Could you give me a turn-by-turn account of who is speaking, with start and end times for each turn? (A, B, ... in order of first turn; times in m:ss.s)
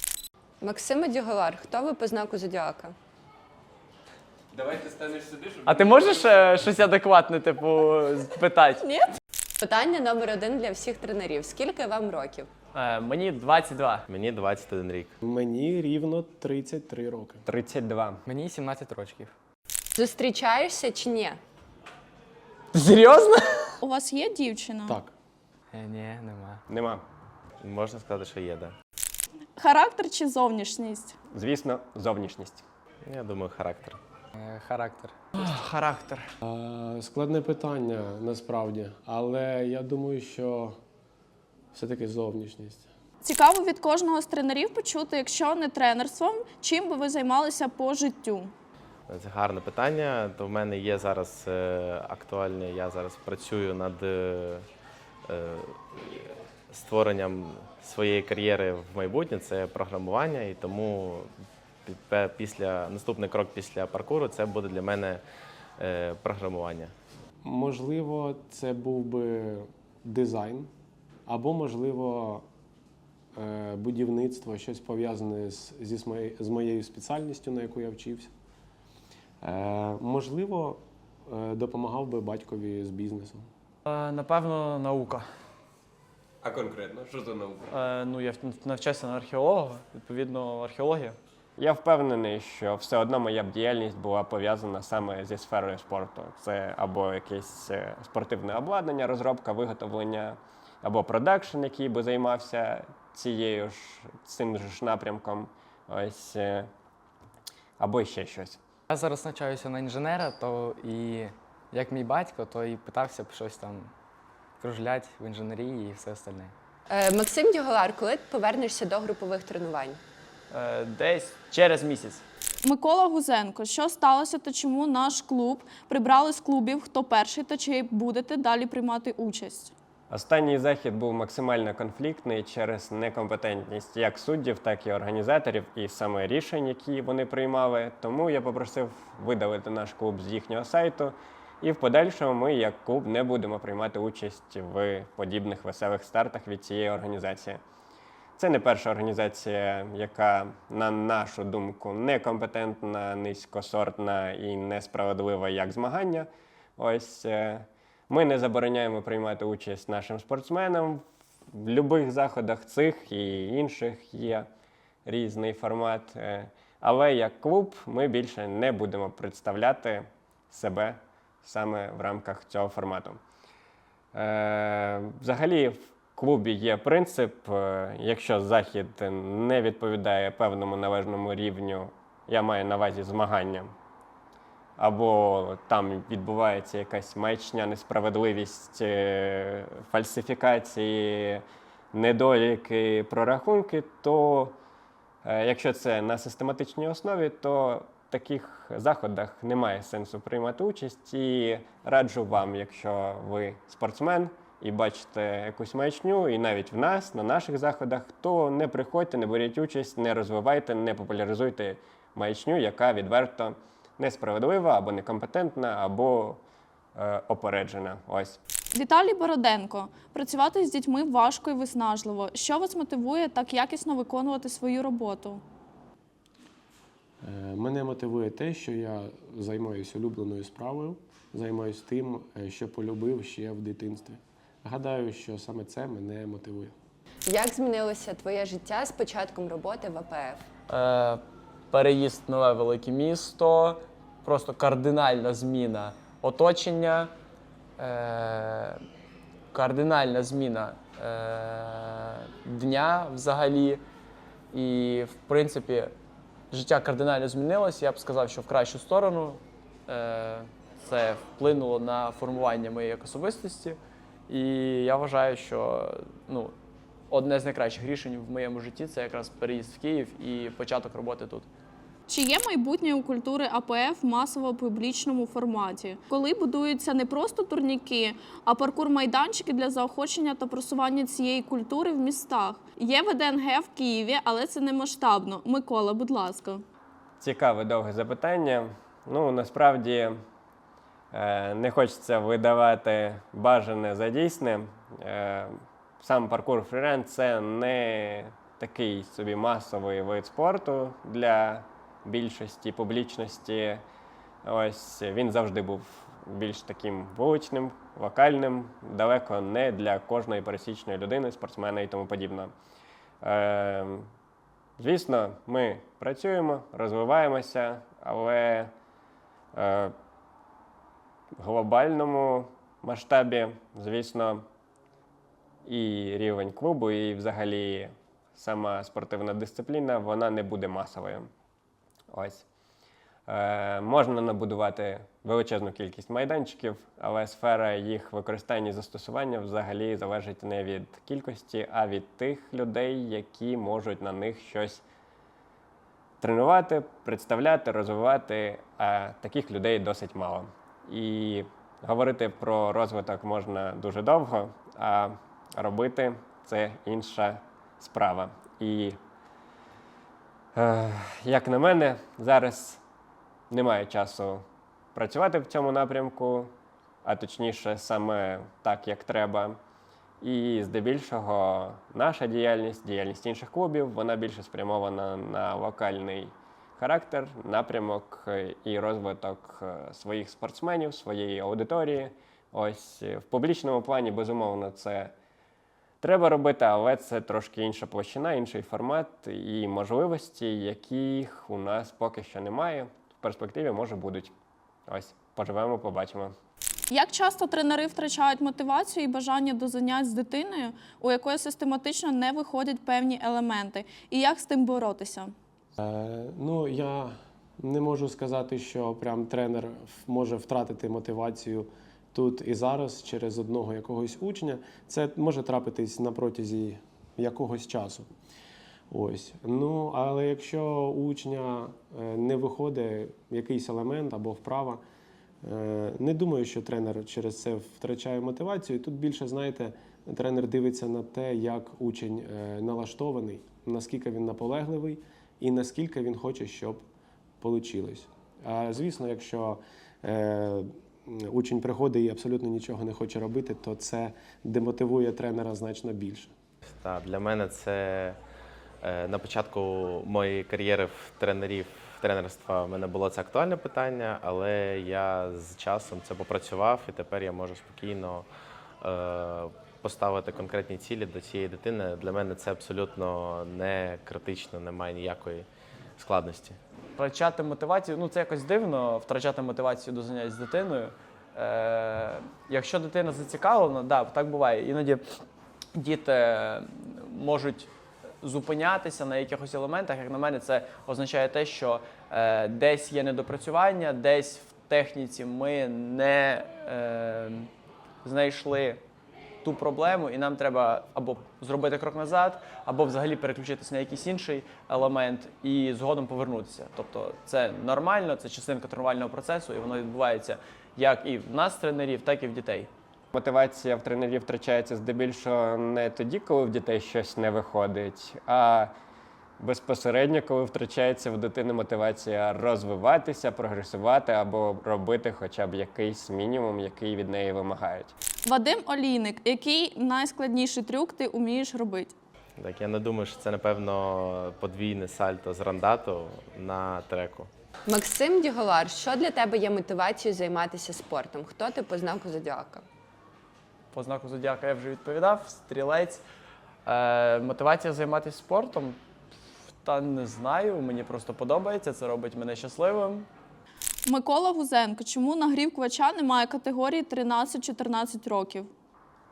0:00.6-0:03.0 A
0:04.5-0:06.0 B
0:05.6-0:09.1 C
0:09.6-0:12.5 A
0:12.7-0:14.1 C
0:14.1-0:15.1 D
0:15.2-0:17.4 E
0:17.5-0:18.2 B
0:18.3-0:19.3 F
0:20.0-0:21.4 A
0:22.7-0:23.8 C
0:23.8-0:25.0 G
0:24.9-0:25.1 E
0:25.7-0:26.6 F
0:26.7-0:27.0 B
0:27.6-0:28.7 D
0:29.6-0:31.2 G
0:31.3-0:32.6 B
0:33.1-0:34.0 D
0:34.4-0:35.4 F
0:35.4-0:36.3 C
0:36.4-0:40.8 E
0:41.7-0:42.9 E
0:43.2-0:48.5 G
0:49.1-0:54.6 D
0:55.3-1:01.3 D
1:01.9-1:05.2 D
1:05.8-1:06.9 D
1:07.4-1:10.7 E
1:11.3-1:12.4 E
1:13.4-1:18.3 E
1:19.4-1:23.5 E
1:23.8-1:25.2 C
1:26.4-1:27.7 B
1:27.7-1:31.2 C
1:31.6-1:46.7 B
1:47.8-1:48.6 B
1:48.9-1:53.9 F
1:54.6-1:56.5 F
1:56.9-2:00.0 A
2:00.5-2:02.2 C
2:02.6-2:09.7 G
2:10.1-2:27.6 B
2:28.4-2:44.5 B
2:45.1-2:53.2 B
2:54.1-3:03.7 B
3:04.8-3:14.6 B
3:15.2-3:36.4 B
3:37.0-3:38.4 B
3:38.7-3:45.4 G
3:47.2-3:56.7 E
3:57.3-4:00.4 A
4:00.7-4:07.1 C
4:07.8-4:08.8 C
4:09.5-4:13.8 C
4:14.5-4:15.9 C
4:16.5-4:23.8 C
4:24.3-4:26.5 C
4:27.1-4:31.5 C
4:32.1-4:46.6 G
4:47.2-4:50.2 B
4:51.1-5:03.8 B
5:04.4-5:12.5 B
5:13.2-5:14.1 B
5:14.8-5:18.7 B
5:19.5-5:19.9 B
5:21.4-5:24.5 B
5:25.6-5:31.3 B
5:32.1-5:32.5 B
5:33.3-5:44.8 B
5:46.2-5:59.0 B
6:00.6-6:02.8 B
6:03.5-6:06.5 B
6:07.0-6:09.6 B
6:10.2-6:25.1 B
6:26.0-6:34.3 B
6:34.9-6:36.3 B
6:36.9-6:45.3 G
6:45.8-6:58.1 E
6:58.9-7:04.8 E
7:05.4-7:16.8 E
7:17.4-7:26.3 E
7:26.7-7:28.2 D
7:28.8-7:38.3 D
7:38.8-7:45.5 D
7:46.0-7:46.6 D
7:47.0-7:55.0 C
7:55.7-7:57.7 C
7:58.2-8:07.5 C
8:08.0-8:08.8 C
8:09.4-8:22.7 C
8:23.1-8:28.7 B
8:29.4-8:37.9 B
8:38.2-8:41.9 G
8:42.4-8:47.3 D
8:47.7-8:52.6 A
8:53.7-8:56.0 C
8:56.7-8:58.8 C
8:59.6-9:03.1 C
9:03.9-9:08.5 G